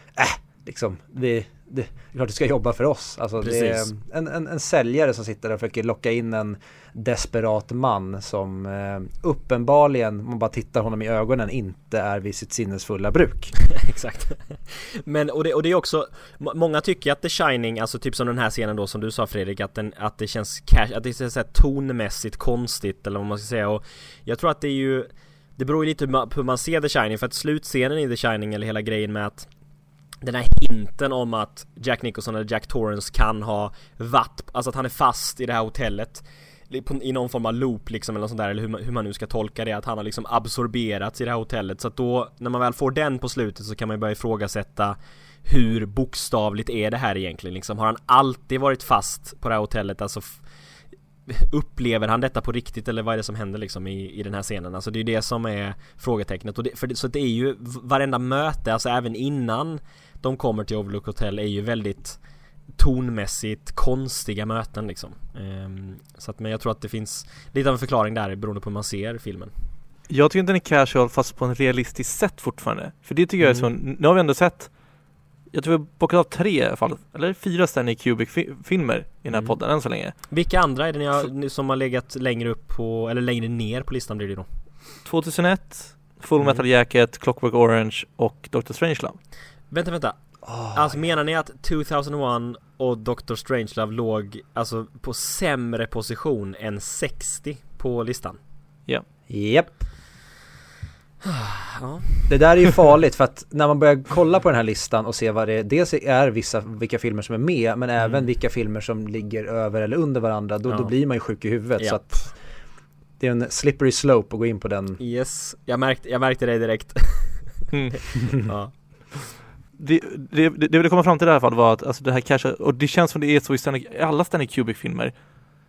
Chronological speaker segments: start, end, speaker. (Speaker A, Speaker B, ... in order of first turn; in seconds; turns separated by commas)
Speaker A: 0.1-13.5, Speaker B: 3.4-3.9, Speaker B: 13.6-29.5, Speaker B: 30.2-50.4, Speaker B: 51.3-62.2, Speaker B: 62.8-69.5, Speaker C: 70.1-74.7, Speaker B: 73.4-73.7, Speaker C: 75.5-80.1, Speaker B: 79.3-79.6, Speaker B: 80.3-84.5, Speaker C: 85.0-89.2, Speaker B: 89.7-90.2, Speaker A: 90.4-91.0, Speaker B: 90.7-98.4, Speaker A: 99.3-99.8, Speaker B: 101.2-102.3, Speaker A: 102.3-112.3, Speaker B: 108.0-108.2, Speaker B: 111.8-112.1, Speaker A: 113.2-115.0, Speaker B: 115.0-119.3, Speaker C: 117.7-118.0, Speaker C: 119.8-125.2